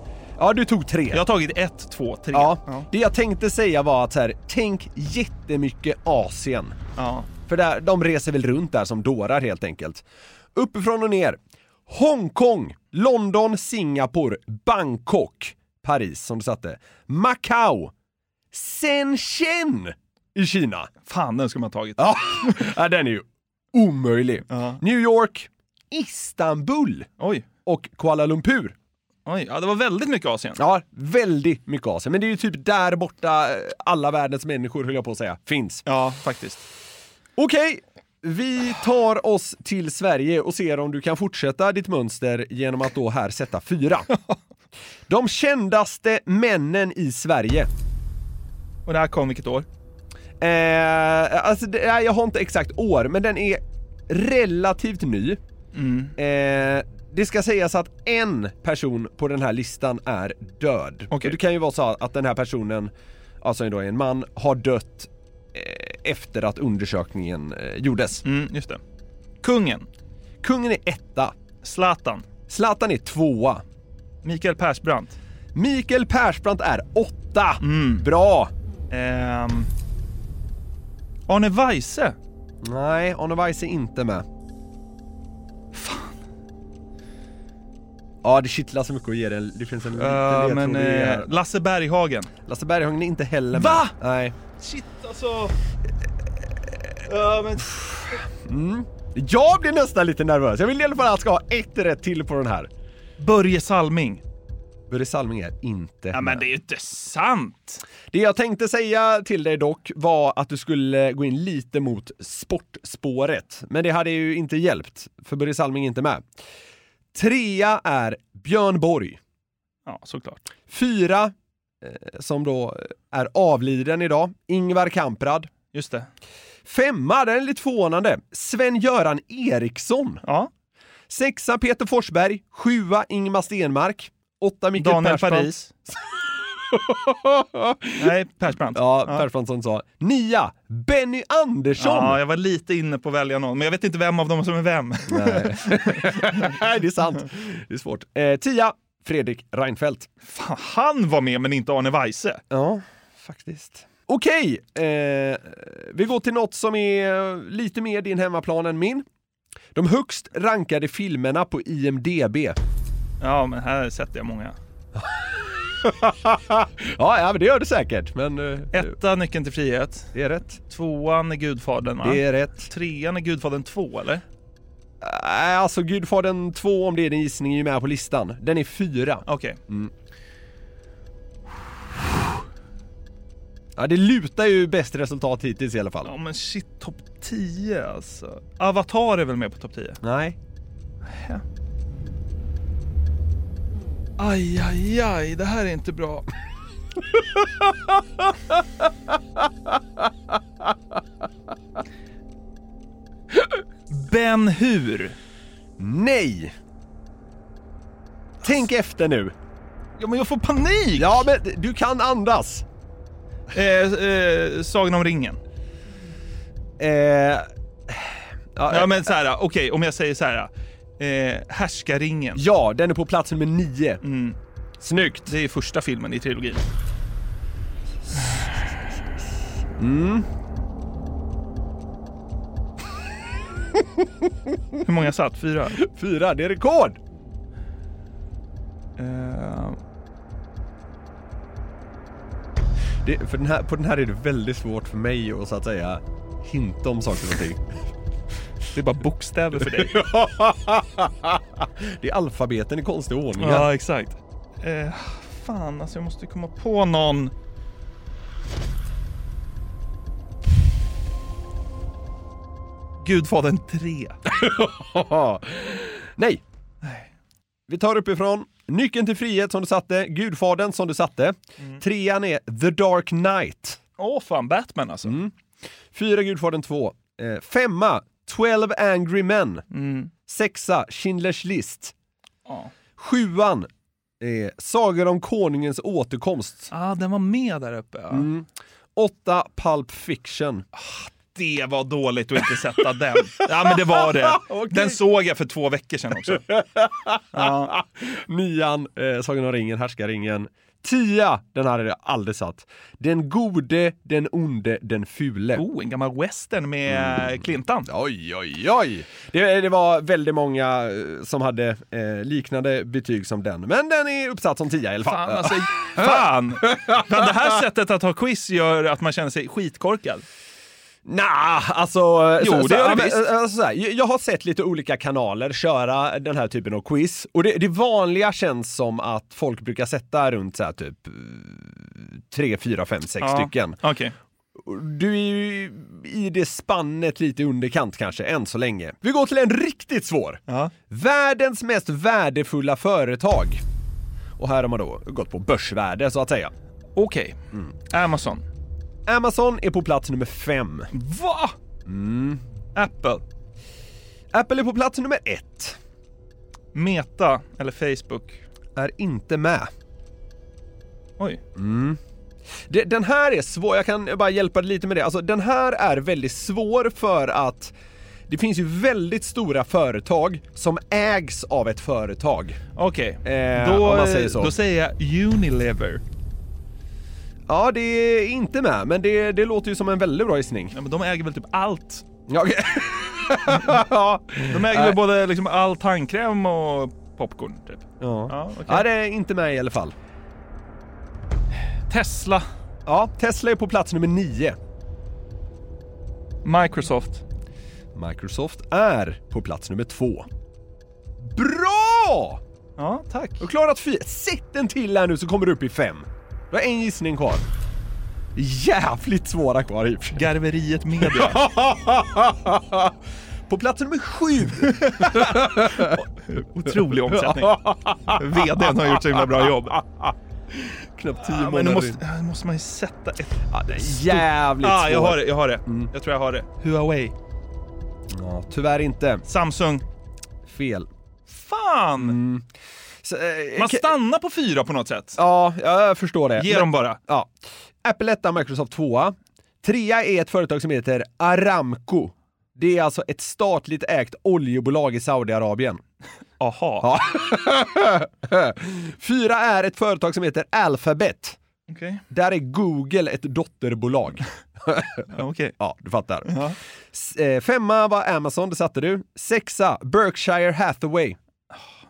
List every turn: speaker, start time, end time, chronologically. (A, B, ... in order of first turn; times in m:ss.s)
0:00.4-0:01.2 A
0:01.1-0:02.9 B
0:02.3-0:06.8 A
0:07.0-0:07.3 B
0:07.5-0:17.9 A
0:18.5-0:20.9 A
0:21.1-0:22.6 B
0:22.0-0:27.1 A
0:24.5-0:24.8 B
0:27.2-0:27.5 B
0:27.7-0:28.8 A
0:29.3-0:30.6 B
0:30.6-0:35.8 A
0:35.9-0:36.6 B
0:37.4-0:44.1 A
0:45.1-0:47.7 A
0:48.9-0:49.7 B
0:50.4-0:55.4 A
0:55.7-0:56.1 B
0:56.2-1:08.2 A
1:01.1-1:01.4 B
1:08.2-1:08.8 B
1:09.4-1:09.9 B
1:10.4-1:11.4 A
1:11.6-1:12.2 B
1:12.5-1:13.6 A
1:14.2-1:15.2 B
1:15.6-1:18.5 A
1:17.6-1:18.1 B
1:18.9-1:19.7 B
1:21.3-1:22.2 B
1:22.6-1:24.3 A
1:25.7-1:26.2 B
1:28.2-1:31.3 A
1:29.9-1:32.3 B
1:32.5-1:34.4 A
1:33.5-1:34.0 B
1:34.6-1:35.6 B
1:37.1-1:38.2 B
1:38.4-1:42.7 A
1:43.2-1:44.2 B
1:44.9-1:46.4 A
1:46.1-1:47.8 B
1:48.1-1:56.3 A
1:57.1-1:59.2 A
1:59.9-2:00.5 B
2:00.7-2:05.5 A
2:05.7-2:06.1 B
2:06.6-2:10.2 A
2:10.2-2:10.5 B
2:11.1-2:15.5 A
2:14.8-2:15.7 B
2:16.7-2:18.0 A
2:18.0-2:19.3 B
2:18.7-2:22.2 A
2:21.8-2:26.5 B
2:25.1-2:30.1 A
2:30.3-2:32.4 B
2:32.5-2:39.1 A
2:39.8-2:42.6 A
2:43.2-2:44.6 B
2:45.7-2:48.9 A
2:48.7-2:50.1 B
2:50.1-2:50.6 A
2:50.7-2:54.2 B
2:52.0-2:52.7 A
2:55.0-2:59.9 A
2:59.3-2:59.6 B
3:03.8-3:06.1 A
3:06.0-3:10.0 B
3:10.0-3:10.4 A
3:11.1-3:11.4 B
3:14.2-3:16.3 B
3:23.9-3:25.2 B
3:25.8-3:26.5 A
3:28.4-3:29.4 A
3:30.0-3:31.3 B
3:31.0-3:32.6 A
3:33.5-3:35.4 B
3:36.8-3:39.1 A
3:38.7-3:42.4 B
3:42.4-3:44.0 A
3:44.0-3:44.4 B
3:44.8-3:45.3 A
3:45.2-3:46.6 B
3:49.8-3:50.3 A
3:54.8-3:55.8 B
3:55.7-3:57.0 A
3:59.0-3:59.8 B
4:03.0-4:07.6 A
4:08.7-4:10.1 B
4:09.7-4:13.7 A
4:13.4-4:17.3 B
4:23.0-4:24.2 B
4:24.3-4:26.4 A
4:26.8-4:27.1 B
4:27.7-4:33.8 A
4:34.0-4:35.2 B
4:35.0-4:35.3 A
4:35.9-4:39.7 A
4:39.7-4:40.1 B
4:40.3-4:41.9 A
4:43.0-4:43.7 A
4:44.2-4:46.7 A
4:46.7-4:48.3 B
4:48.1-4:50.7 A
4:50.8-4:56.5 B
4:53.4-4:55.0 A
4:56.3-5:05.6 A
4:57.3-4:57.8 B
5:05.6-5:07.9 B
5:06.9-5:17.5 A
5:15.0-5:20.2 B
5:21.0-5:33.8 A
5:22.4-5:23.3 B
5:33.2-5:34.1 B
5:34.6-5:43.6 A
5:44.4-5:46.5 A
5:47.0-5:48.4 B
5:49.1-5:50.9 A
5:50.9-5:51.6 B
5:51.8-5:52.4 A
5:52.8-5:53.2 B
5:54.3-5:55.8 A
5:56.7-5:58.4 B
5:58.8-5:59.7 A
6:01.6-6:02.0 A
6:02.7-6:07.8 A
6:08.3-6:12.6 A
6:12.8-6:16.0 B
6:13.2-6:14.5 A
6:17.5-6:20.7 A
6:20.7-6:22.1 B
6:22.3-6:25.0 A
6:23.5-6:23.8 B
6:24.4-6:28.9 B
6:28.0-6:30.0 A
6:31.9-6:32.5 B
6:32.9-6:34.6 A
6:36.4-6:37.2 B
6:38.0-6:40.3 A
6:41.2-6:42.4 A
6:42.8-6:43.4 B
6:43.4-6:47.4 A
6:48.4-6:50.3 A
6:50.2-6:51.5 B
6:51.0-6:52.9 A
6:53.5-6:56.0 A
6:54.6-6:59.8 B
6:57.1-7:02.0 A
7:01.2-7:07.1 B
7:03.5-7:05.9 A
7:08.1-7:09.2 A
7:09.3-7:09.8 B
7:10.5-7:10.9 A
7:11.3-7:12.2 B
7:12.0-7:12.5 A
7:13.0-7:13.9 A
7:13.6-7:15.2 B
7:15.2-7:17.3 A
7:16.4-7:17.0 B
7:17.8-7:25.8 A
7:26.4-7:27.0 B
7:26.8-7:31.4 A
7:31.7-7:32.0 B
7:32.1-7:35.1 A
7:35.1-7:35.6 B
7:35.6-7:36.3 A
7:36.3-7:36.6 B
7:36.9-7:41.2 A